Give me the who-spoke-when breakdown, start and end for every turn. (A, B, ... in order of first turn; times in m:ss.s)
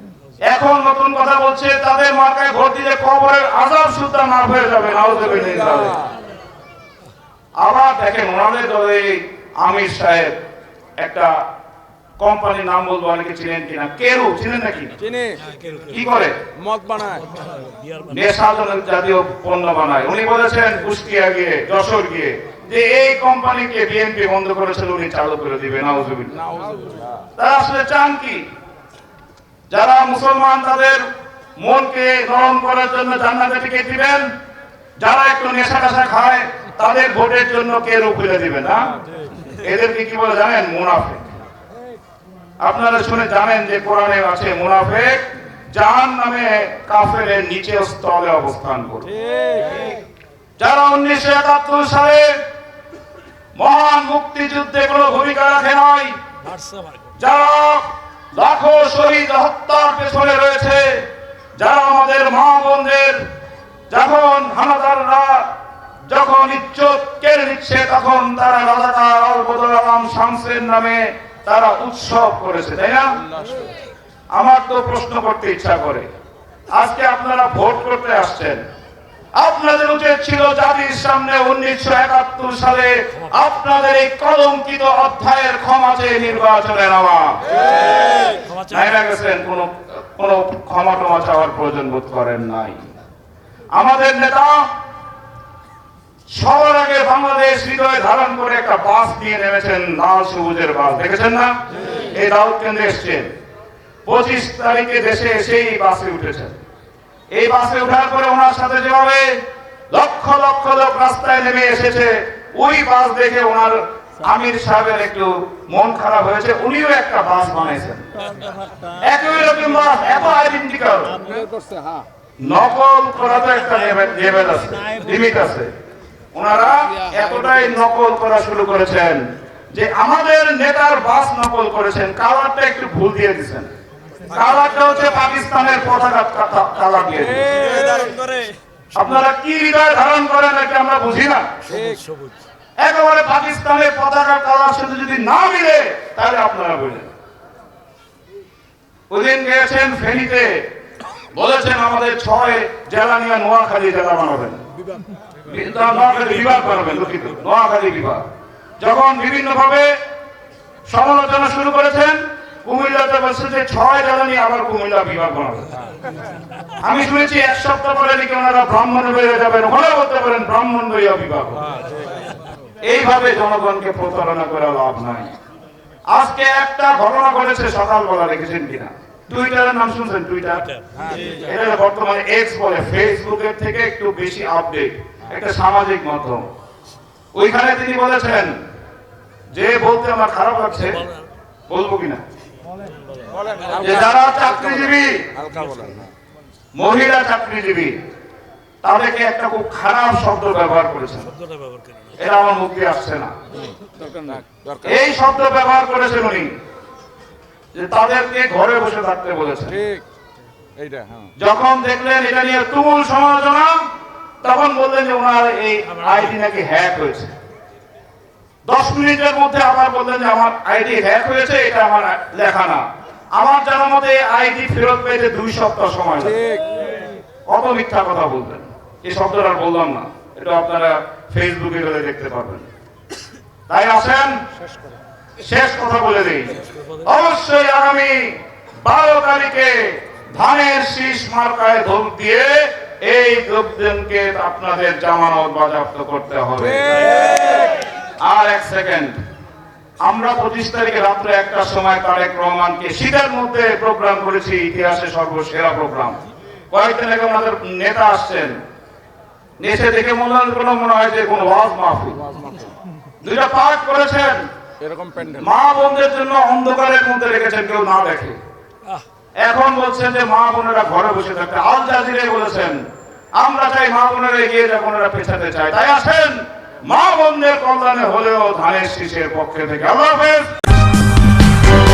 0:00.5-0:06.0 A
0:07.6-0:10.4 A
0:11.0-0:11.3 A
0:12.2-0:15.0 A
0:15.0-0:15.4 B
0:15.9-0:16.4 A
0:16.6-0:17.3 B
0:18.1-0:26.4 A
0:26.4-0:27.1 B
0:27.4-0:28.5 A
0:29.7-0:31.1 A
0:31.6-0:34.3 A
0:35.0-0:38.9 A
0:39.6-0:41.3 A
0:42.6-0:49.1 A
0:49.3-0:49.9 B
0:50.6-0:52.3 A
0:53.6-0:56.2 A
0:57.2-1:01.1 A
1:01.6-1:03.2 A
1:03.9-1:05.5 A
1:06.1-1:13.2 A
1:13.3-1:13.6 B
1:14.3-1:16.1 A
1:16.7-1:18.6 A
1:19.4-1:27.5 A
1:28.6-1:32.8 A
1:33.8-1:34.7 A
1:36.3-1:43.3 A
1:44.1-1:46.6 A
1:47.3-1:49.3 A
1:49.9-1:58.1 A
1:59.0-2:01.2 A
2:02.4-2:05.7 A
2:06.3-2:13.7 A
2:14.3-2:17.7 A
2:17.4-2:18.2 B
2:19.0-2:21.5 A
2:21.7-2:22.0 B
2:22.8-2:27.1 A
2:29.1-2:30.6 A
2:31.3-2:34.6 A
2:35.5-2:38.2 A
2:38.8-2:39.9 A
2:40.9-2:45.7 A
2:46.8-2:51.7 A
2:52.8-2:55.3 A
2:56.1-3:06.5 A
3:07.3-3:08.6 A
3:09.5-3:11.1 A
3:11.7-3:12.2 A
3:13.4-3:14.8 B
3:13.8-3:15.2 A
3:15.4-3:16.1 B
3:16.8-3:18.0 A
3:18.8-3:21.3 A
3:22.2-3:23.3 A
3:23.9-3:25.0 B
3:24.8-3:26.5 A
3:27.7-3:29.8 A
3:29.7-3:30.0 B
3:30.8-3:31.3 B
3:31.4-3:33.8 A
3:34.4-3:37.3 A
3:38.7-3:42.8 A
3:43.4-3:46.4 A
3:46.3-3:46.6 B
3:47.5-3:52.7 A
3:53.7-3:54.4 A
3:55.4-4:07.4 A
4:06.8-4:07.7 B
4:08.2-4:09.2 A
4:10.0-4:16.2 A
4:16.7-4:18.6 A
4:19.6-4:22.2 A
4:22.2-4:22.7 B
4:23.2-4:24.5 A
4:24.8-4:25.4 B
4:25.4-4:28.4 A
4:29.4-4:32.8 A
4:33.4-4:40.5 A